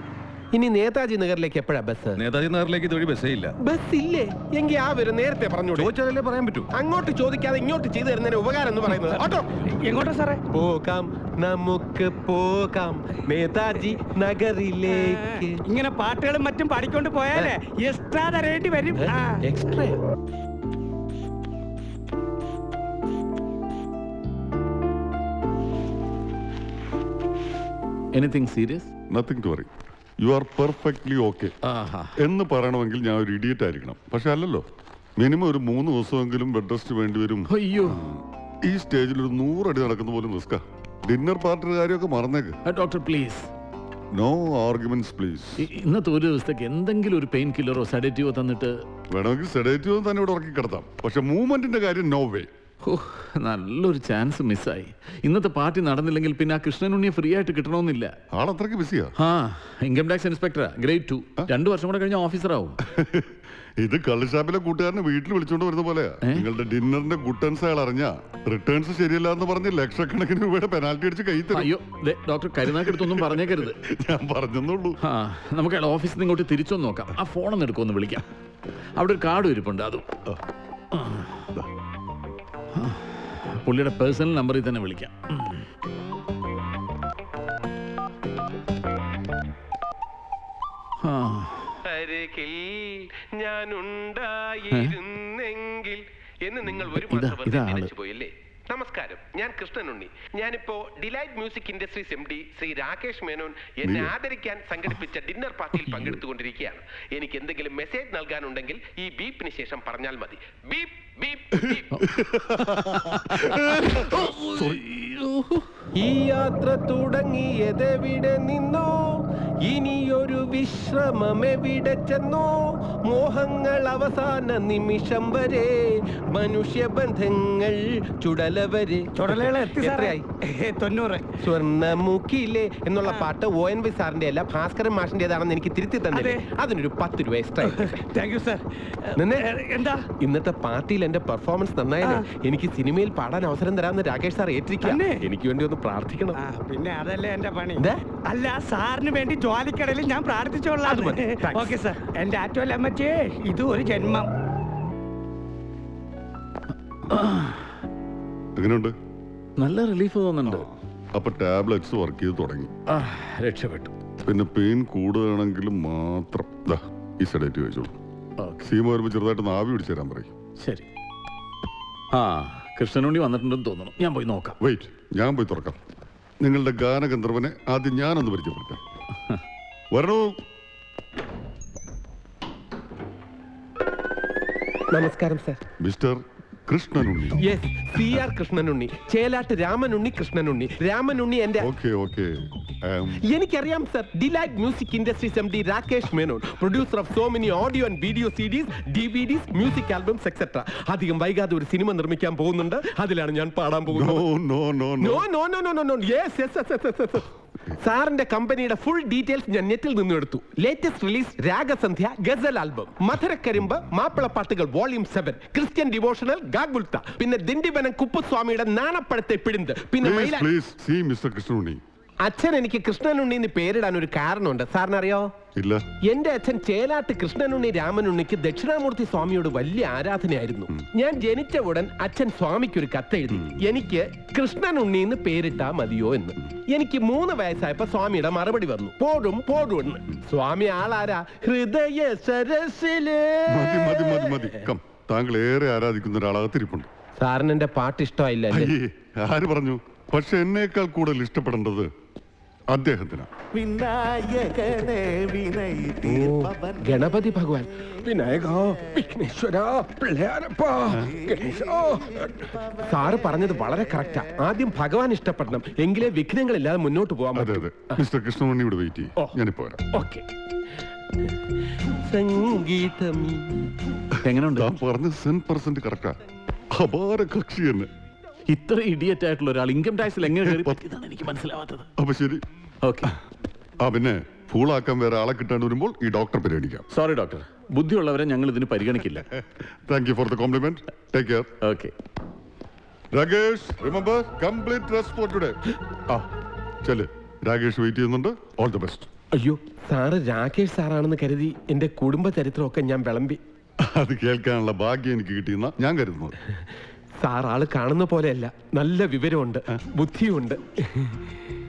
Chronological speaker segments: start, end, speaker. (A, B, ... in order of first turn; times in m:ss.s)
0:00.5-0:02.2 A
0:02.3-0:03.5 B
0:03.6-0:05.9 A
0:05.9-0:06.6 B
0:06.7-0:09.6 A
0:09.8-0:10.4 C
0:10.5-0:15.6 A
0:15.6-0:19.4 C
0:18.9-0:20.0 A
0:28.1-0:28.9 D
0:29.1-0:31.5 E
0:31.6-0:32.2 D
0:32.2-0:34.6 E
0:35.2-0:42.6 E
0:37.5-0:38.0 D
0:42.6-0:43.5 D
0:44.1-0:45.7 E
0:45.6-0:48.8 D
0:49.1-0:52.5 E
0:52.8-0:58.1 D
0:58.3-0:59.1 E
0:59.2-1:02.8 D
1:02.8-1:11.7 E
1:11.5-1:13.8 D
1:12.7-1:15.0 E
1:15.0-1:18.2 D
1:19.0-1:20.1 D
1:20.9-1:21.5 D
1:22.7-1:25.6 D
1:31.0-1:31.7 D
1:31.8-1:52.0 A
1:37.1-1:37.9 D
1:43.8-1:44.1 E
1:51.7-1:54.6 E
1:52.6-1:55.6 D
1:55.9-2:10.2 A
2:09.2-2:11.3 C
2:11.4-2:18.1 A
2:16.1-2:16.4 C
2:17.7-2:20.0 C
2:19.1-2:19.6 A
2:20.1-2:26.4 A
2:24.8-2:25.2 C
2:26.4-2:34.3 C
2:27.8-2:28.0 A
2:30.8-2:31.8 A
2:37.1-2:37.6 D
2:38.6-2:38.9 E
2:39.6-2:40.7 D
2:40.4-2:42.7 E
2:42.9-2:43.9 D
2:44.2-2:47.9 E
2:48.4-2:48.7 D
2:48.6-2:50.3 E
2:50.6-2:50.8 D
2:52.1-2:54.6 D
2:54.6-2:55.8 E
2:56.4-2:58.8 E
2:59.9-3:00.4 E
3:04.9-3:05.6 A
3:05.8-3:07.4 E
3:07.4-3:11.7 A
3:11.6-3:13.2 E
3:13.2-3:24.3 A
3:23.9-3:25.2 E
3:25.0-3:40.5 A
3:40.0-3:41.8 E
3:42.2-3:45.3 A
3:45.6-3:45.8 E
3:46.0-4:04.6 A
4:03.5-4:06.9 E
4:07.2-4:08.7 A
4:08.5-4:11.9 E
4:12.7-4:13.3 E
4:13.6-4:15.9 B
4:15.9-4:28.0 A
4:27.3-4:29.8 E
4:29.9-4:30.2 A
4:32.0-4:33.7 A
4:34.2-4:34.7 D
4:34.6-4:36.2 E
4:36.7-4:37.9 E
4:38.5-4:41.9 D
4:40.4-4:40.8 E
4:42.0-4:42.4 E
4:42.8-4:43.1 D
4:43.8-4:46.8 E
4:46.9-4:49.2 D
4:49.3-4:51.5 E
4:51.6-4:51.9 D
4:53.1-4:55.6 E
4:56.8-4:59.1 E
4:59.4-5:03.4 A
5:03.8-5:06.4 E
5:07.2-5:11.2 A